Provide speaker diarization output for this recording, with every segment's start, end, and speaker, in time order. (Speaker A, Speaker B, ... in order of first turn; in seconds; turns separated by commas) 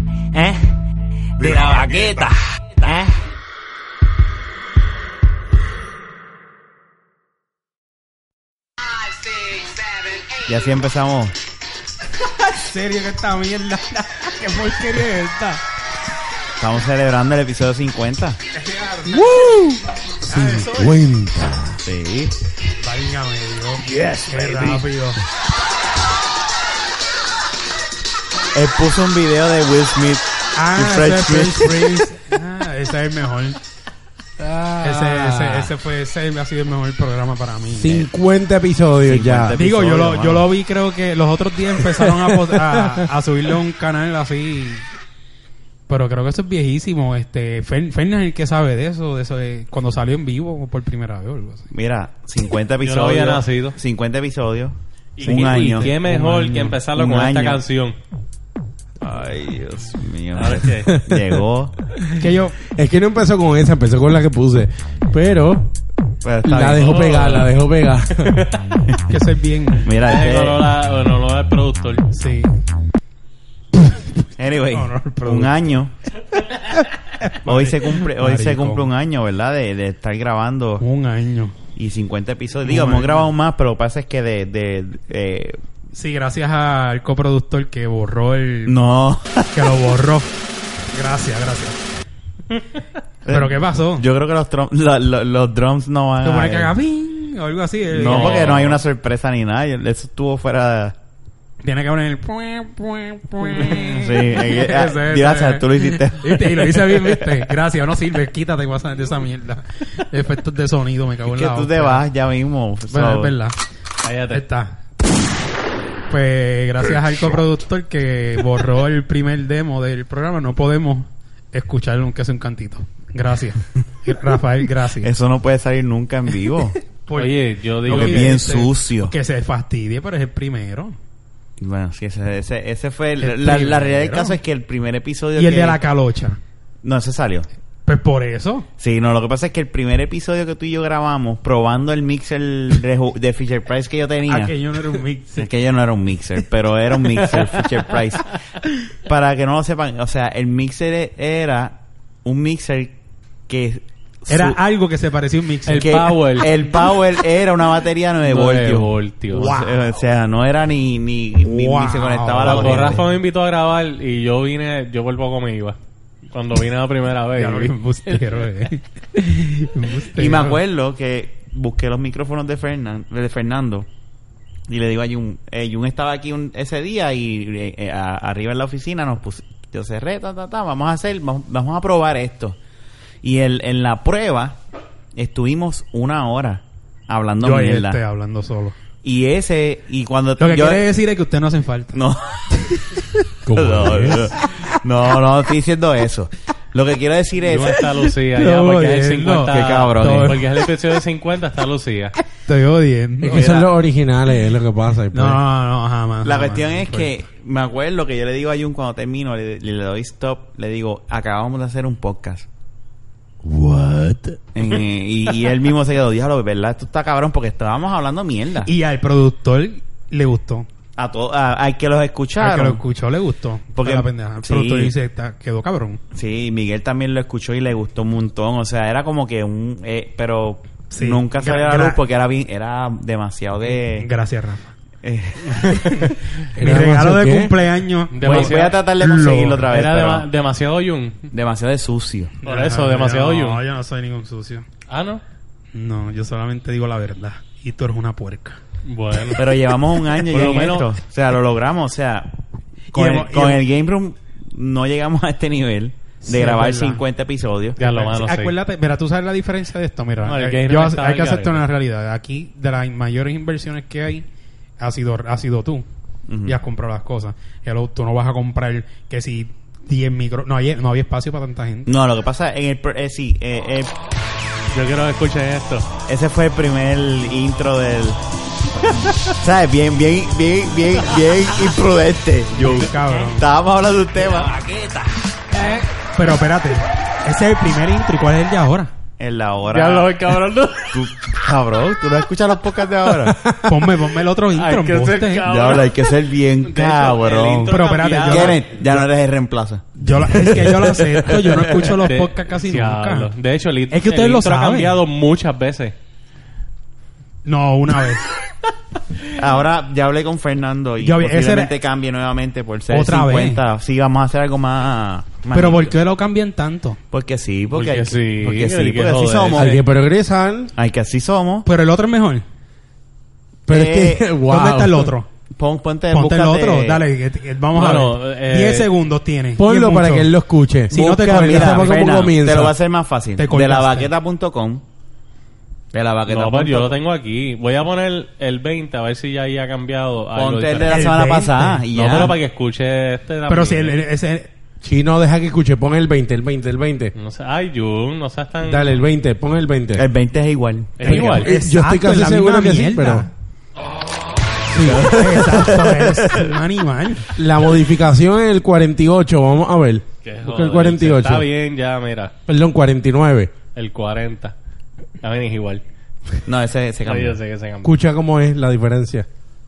Speaker A: 0.3-0.6, Speaker A: 1.4-3.1, Speaker B: 10.5-11.4, Speaker C: 12.6-15.6, Speaker B: 16.6-18.4, Speaker C: 18.5-19.4, Speaker D: 19.1-21.8, Speaker C: 20.2-21.0, Speaker B: 21.8-22.3, Speaker C: 22.8-25.2, Speaker B: 28.5-32.0, Speaker C: 30.5-33.6, Speaker D: 34.4-35.7, Speaker C: 34.8-38.1, Speaker D: 37.8-39.5, Speaker B: 39.0-40.5, Speaker C: 39.5-44.9, Speaker D: 42.0-43.1, Speaker C: 45.9-51.7, Speaker B: 51.7-56.0, Speaker E: 52.8-53.8, Speaker E: 55.2-58.0, Speaker C: 55.2-56.8, Speaker B: 56.9-57.6, Speaker B: 59.0-61.7, Speaker E: 60.3-60.9, Speaker D: 60.9-61.4, Speaker C: 62.2-62.6, Speaker D: 62.7-65.7, Speaker B: 66.2-67.4, Speaker D: 66.4-68.5, Speaker E: 66.8-67.5, Speaker E: 68.2-68.5, Speaker C: 69.1-69.9, Speaker B: 69.8-70.6, Speaker E: 70.0-72.1, Speaker C: 72.1-72.5, Speaker B: 74.4-75.9, Speaker C: 74.7-75.7, Speaker C: 76.5-78.9, Speaker B: 77.4-80.8, Speaker C: 80.8-81.5, Speaker B: 81.8-85.6, Speaker C: 82.6-83.3, Speaker C: 85.9-88.8, Speaker B: 88.7-89.5, Speaker C: 89.5-90.3, Speaker C: 90.9-91.8, Speaker B: 93.2-96.7, Speaker C: 93.3-94.0, Speaker C: 96.2-98.8, Speaker B: 97.9-100.9, Speaker E: 98.0-98.8, Speaker C: 101.6-112.0, Speaker B: 103.5-107.4, Speaker B: 111.3-113.3, Speaker C: 112.9-113.6, Speaker E: 114.0-114.4, Speaker C: 114.3-114.8, Speaker C: 116.1-125.1, Speaker B: 125.0-126.8, Speaker C: 127.0-130.9, Speaker E: 127.2-128.4, Speaker B: 127.8-129.1, Speaker B: 131.6-135.8, Speaker C: 133.2-134.4, Speaker C: 135.3-136.4, Speaker B: 136.8-137.5, Speaker C: 137.9-138.7, Speaker B: 138.8-144.5, Speaker C: 144.3-145.5, Speaker B: 145.3-148.4, Speaker E: 147.2-147.7, Speaker B: 149.0-152.9, Speaker B: 153.5-154.6, Speaker C: 154.3-156.1, Speaker E: 155.7-156.5, Speaker B: 155.7-163.1, Speaker E: 158.2-159.6, Speaker C: 159.3-159.8, Speaker C: 161.4-163.0, Speaker E: 162.4-165.8, Speaker E: 166.3-168.3, Speaker C: 167.3-170.6, Speaker B: 170.2-173.9, Speaker B: 174.7-182.6, Speaker B: 183.2-184.6, Speaker B: 185.2-188.0, Speaker C: 187.4-188.8, Speaker B: 189.0-190.8, Speaker C: 190.4-192.0, Speaker B: 191.9-192.6, Speaker D: 193.4-194.3, Speaker B: 193.5-197.8, Speaker E: 197.4-202.2, Speaker C: 198.3-200.4, Speaker B: 199.5-200.4, Speaker C: 202.5-203.7, Speaker D: 203.2-205.4, Speaker B: 203.3-203.6, Speaker C: 205.1-207.1, Speaker B: 206.2-212.5, Speaker D: 213.4-214.4, Speaker B: 214.5-218.7, Speaker C: 218.7-220.7, Speaker B: 221.0-222.8, Speaker C: 222.4-226.0, Speaker B: 223.8-224.9, Speaker B: 226.1-234.1, Speaker C: 230.9-232.0, Speaker C: 233.7-234.7, Speaker B: 235.0-236.2, Speaker D: 236.5-237.5, Speaker C: 236.6-239.8, Speaker E: 238.1-238.8, Speaker B: 238.2-240.3, Speaker E: 239.7-241.3, Speaker B: 241.3-242.3, Speaker C: 242.4-244.7, Speaker E: 242.4-243.6, Speaker E: 244.9-245.2, Speaker C: 245.7-248.6, Speaker E: 248.8-249.4, Speaker B: 249.4-252.3, Speaker E: 250.2-250.8, Speaker C: 252.9-253.6, Speaker B: 252.9-257.8, Speaker C: 256.2-257.0, Speaker E: 257.8-258.5, Speaker C: 257.8-264.2, Speaker E: 260.3-261.6, Speaker C: 264.8-265.9, Speaker B: 266.3-266.6, Speaker C: 266.4-271.9, Speaker B: 271.9-273.9, Speaker E: 274.7-275.9, Speaker B: 276.1-278.2, Speaker B: 278.8-284.6, Speaker C: 282.6-283.5, Speaker A: 284.6-285.1, Speaker C: 286.1-288.9, Speaker B: 289.2-290.1, Speaker E: 289.7-291.0, Speaker B: 290.9-293.4, Speaker C: 293.6-295.4, Speaker E: 294.6-298.8, Speaker B: 295.5-302.0, Speaker C: 297.7-299.0, Speaker C: 300.0-303.3, Speaker E: 302.0-305.9, Speaker C: 303.9-305.0, Speaker C: 307.5-308.2, Speaker B: 309.3-315.9, Speaker C: 311.0-311.8, Speaker C: 312.9-313.6, Speaker C: 315.5-317.0, Speaker B: 317.1-319.8, Speaker E: 317.7-319.8, Speaker D: 319.5-320.7, Speaker B: 320.8-321.7, Speaker C: 321.7-322.4, Speaker D: 323.7-325.1, Speaker B: 323.7-324.3, Speaker C: 324.4-325.3, Speaker B: 325.6-327.0, Speaker C: 326.1-330.3, Speaker E: 327.8-328.9, Speaker D: 329.6-332.8, Speaker C: 330.9-332.0, Speaker B: 330.9-334.8, Speaker C: 333.4-334.1, Speaker B: 335.9-337.0, Speaker E: 336.3-341.0, Speaker B: 340.3-342.4, Speaker C: 340.9-341.8, Speaker E: 341.9-344.0, Speaker C: 343.5-344.5, Speaker D: 344.8-347.1, Speaker E: 347.1-349.0, Speaker D: 348.6-350.1, Speaker B: 349.9-351.2, Speaker E: 351.0-351.5, Speaker D: 351.1-353.3, Speaker C: 351.1-353.3, Speaker D: 354.7-355.1, Speaker B: 354.8-356.5, Speaker C: 355.1-357.3, Speaker D: 357.4-361.5, Speaker E: 360.2-362.3, Speaker D: 362.5-363.5, Speaker E: 363.8-364.5, Speaker E: 365.2-365.8, Speaker B: 366.5-367.4, Speaker E: 367.1-368.0, Speaker D: 367.8-369.3